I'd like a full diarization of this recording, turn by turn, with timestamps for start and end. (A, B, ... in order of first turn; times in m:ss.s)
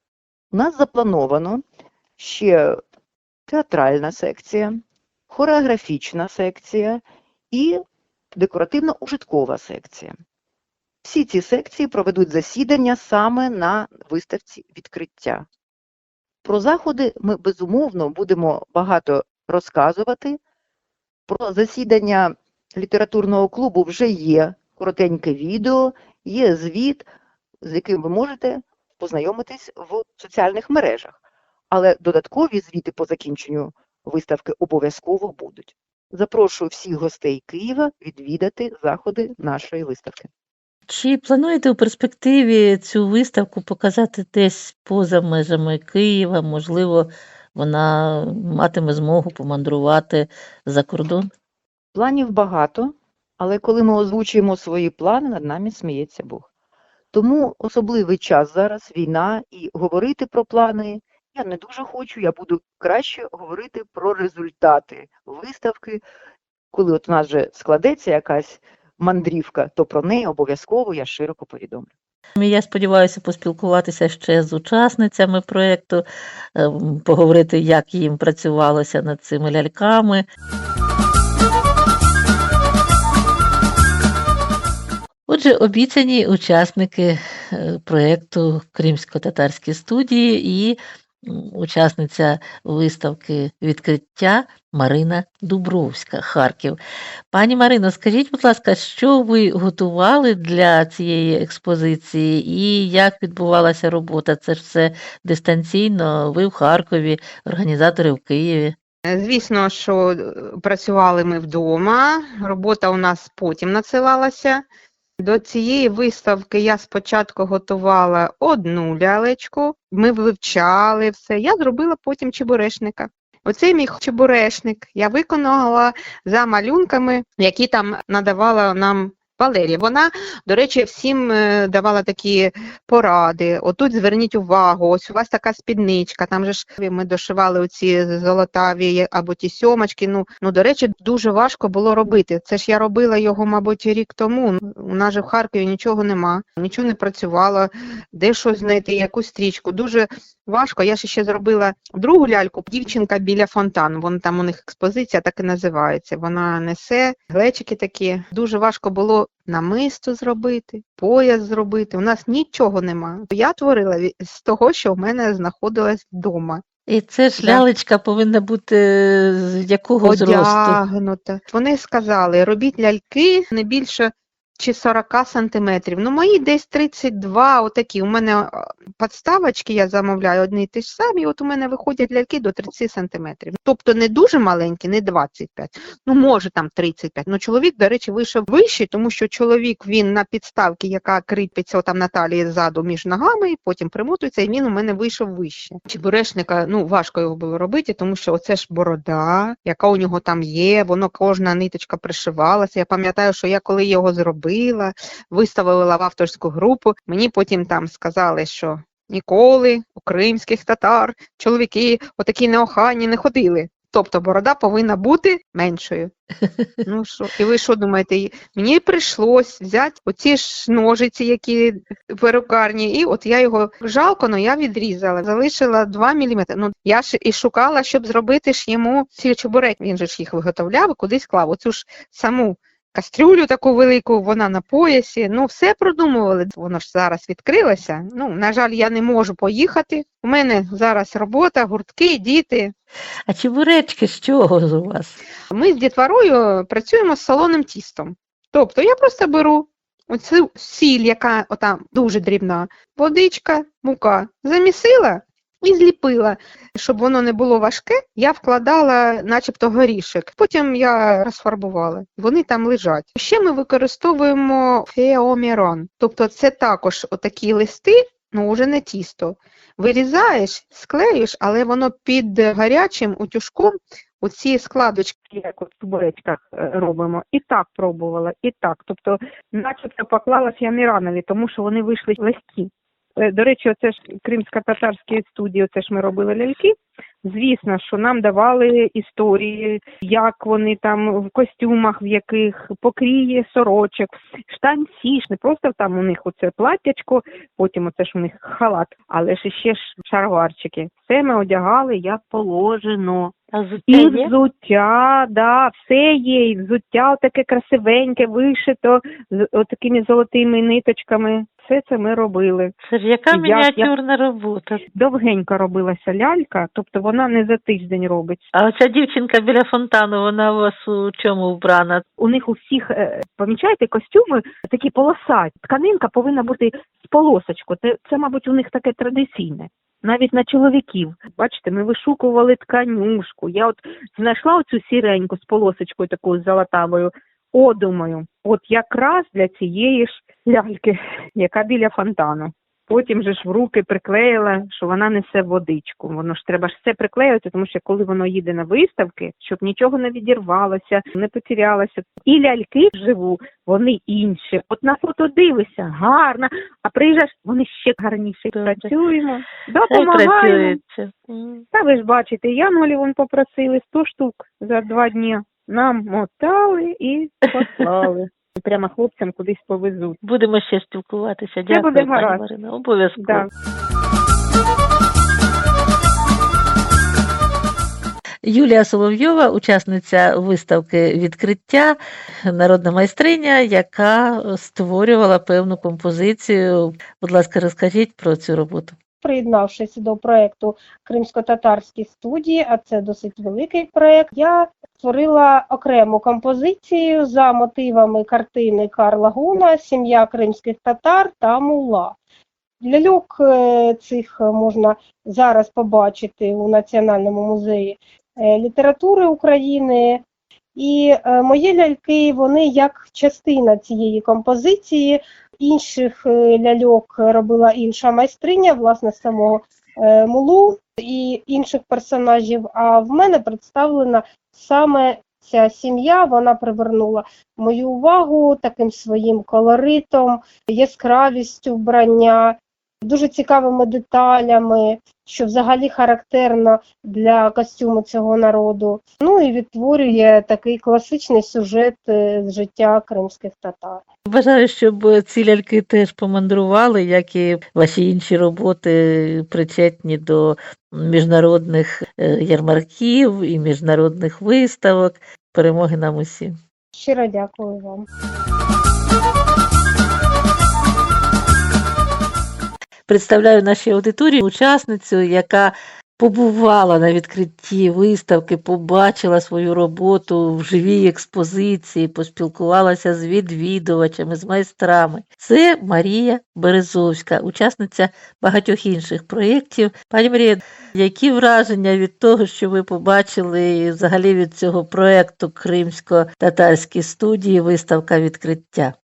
0:00.5-0:01.6 A
0:02.2-0:02.8 A
0:03.5-0:07.8 A
0:08.3-0:10.1 A
0:11.0-0:15.4 A
0:16.4-0:20.4 A
0:21.3-0:27.1 A
0:27.6-0:31.2 A
0:31.7-0:40.3 A
0:40.9-0:51.3 B
0:51.9-0:56.4 A
0:57.1-1:06.0 A
1:06.7-1:11.9 A
1:12.4-1:20.2 B
1:25.3-1:36.8 B
1:37.3-1:48.7 B
1:49.1-1:54.6 C
1:55.2-2:46.6 C
2:46.9-2:50.8 B
2:47.4-2:47.6 C
2:50.0-3:36.1 C
3:36.8-4:02.7 C
4:03.3-4:05.2 B
4:05.5-5:03.3 C
5:03.5-5:04.3 B
5:03.9-5:12.7 C
5:12.8-5:14.8 B
5:13.3-5:13.9 C
5:14.9-5:18.4 C
5:18.5-5:22.0 B
5:22.2-6:00.8 C
5:58.5-5:58.9 B
5:59.9-6:01.6 B
6:01.7-6:10.2 C
6:07.6-6:07.9 B
6:10.2-6:13.5 B
6:11.7-6:12.4 C
6:13.2-6:13.5 C
6:18.4-6:29.0 B
6:29.2-6:42.2 D
6:42.8-6:50.2 D
6:50.8-7:24.0 D
7:24.3-7:36.6 B
7:36.9-7:38.0 D
7:43.1-8:08.9 B